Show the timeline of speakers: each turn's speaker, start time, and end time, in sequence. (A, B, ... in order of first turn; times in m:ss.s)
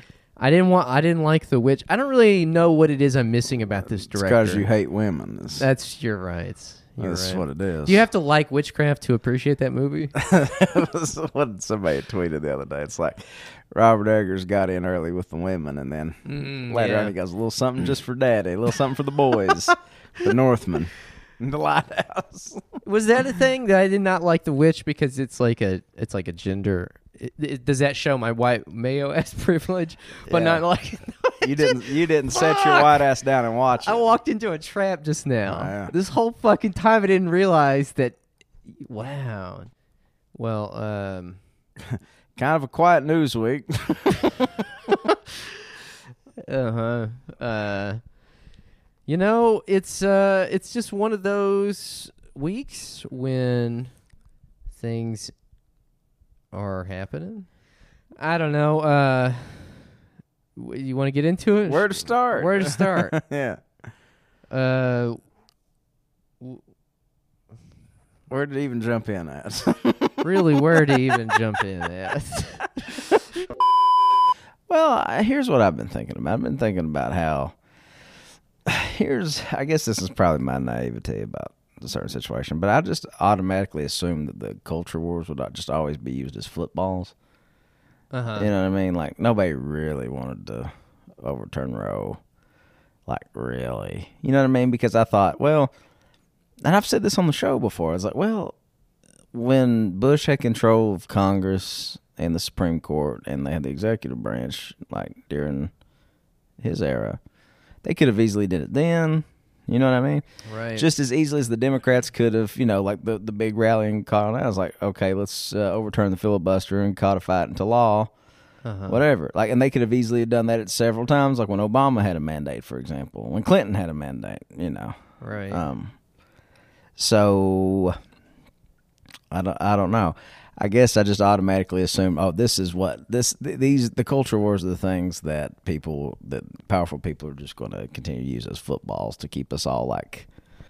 0:00.4-0:04.7 A
0:04.1-0:05.7 B
0:05.6-0:10.2 A
0:07.0-0:08.0 B
0:10.2-0:22.8 B
0:16.3-0:17.1 A
0:22.8-0:33.0 A
0:30.3-0:30.6 B
0:31.4-0:34.1 B
0:33.8-0:38.2 A
0:35.5-0:35.9 B
0:38.7-0:39.7 A
0:40.4-0:41.4 A
0:41.8-0:44.9 B
0:46.4-0:48.0 A
0:49.1-0:53.9 A
0:54.8-0:55.3 A
0:56.5-0:57.5 A
0:58.2-0:59.9 A
1:00.6-1:03.2 A
1:01.7-1:03.6 B
1:04.5-1:05.2 A
1:08.3-1:11.2 B
1:10.2-1:12.7 A
1:14.7-1:17.6 B
1:18.6-1:27.1 B
1:28.1-1:28.5 A
1:28.4-1:32.2 B
1:33.1-1:35.7 B
1:36.6-1:38.6 B
1:39.3-1:45.7 B
1:46.6-1:47.2 B
1:47.8-1:50.2 B
1:50.5-1:50.8 A
1:50.8-1:58.1 B
1:58.6-1:59.0 A
1:58.9-2:04.9 B
2:05.2-2:05.6 A
2:05.5-2:05.9 B
2:07.0-2:08.0 B
2:09.3-2:20.3 B